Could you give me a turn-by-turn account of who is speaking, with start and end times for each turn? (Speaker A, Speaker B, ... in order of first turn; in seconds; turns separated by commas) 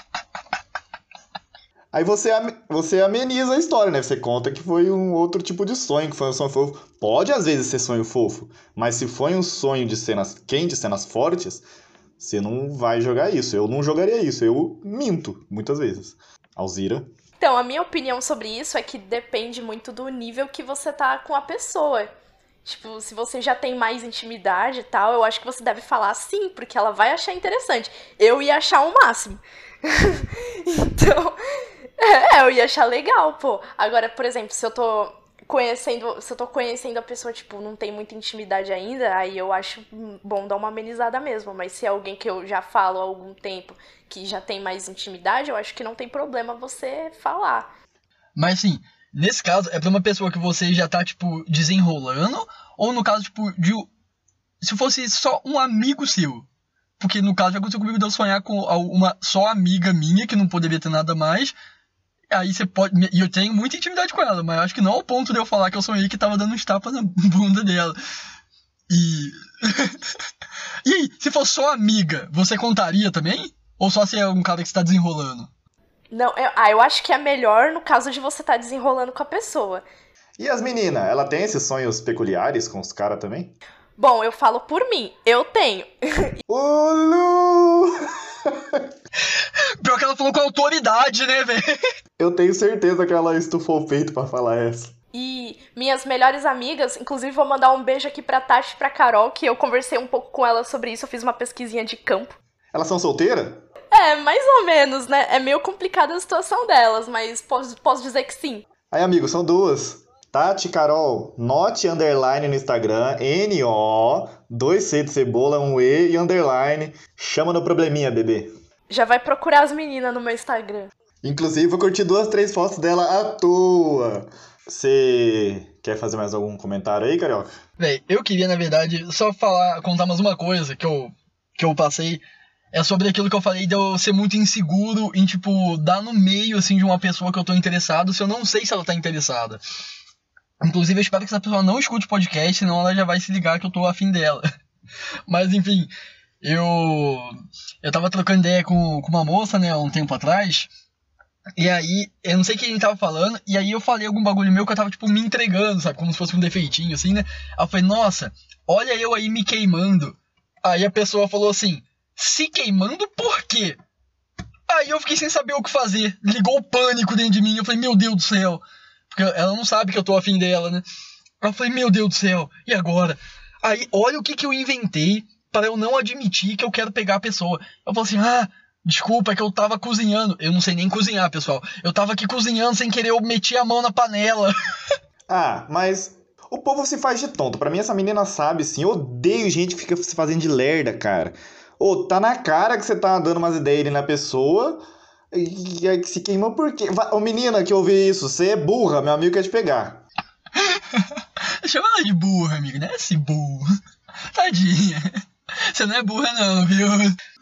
Speaker A: 1.9-11.7, Speaker A: 12.2-17.1, Speaker B: 17.4-22.1, Speaker B: 22.6-31.4, Speaker B: 32.0-47.7, Speaker C: 48.4-53.9, Speaker C: 54.6-56.5, Speaker C: 57.0-61.5, Speaker C: 62.3-68.0, Speaker C: 68.9-70.0, Speaker C: 70.8-75.5, Speaker B: 76.1-79.8, Speaker A: 80.4-83.6, Speaker B: 84.0-86.4, Speaker A: 86.5-88.8, Speaker C: 89.8-91.7, Speaker A: 92.2-94.9, Speaker B: 95.1-102.4, Speaker A: 102.7-103.6, Speaker B: 103.9-108.7, Speaker A: 108.9-118.5, Speaker B: 118.9-120.9, Speaker A: 121.2-127.5, Speaker C: 127.8-139.6, Speaker C: 140.6-144.4, Speaker C: 145.3-147.3, Speaker C: 147.8-150.7, Speaker C: 151.6-163.8, Speaker C: 164.7-170.8, Speaker C: 171.4-184.5, Speaker A: 185.3-200.0, Speaker C: 201.6-203.7, Speaker C: 204.3-205.0, Speaker C: 205.7-207.2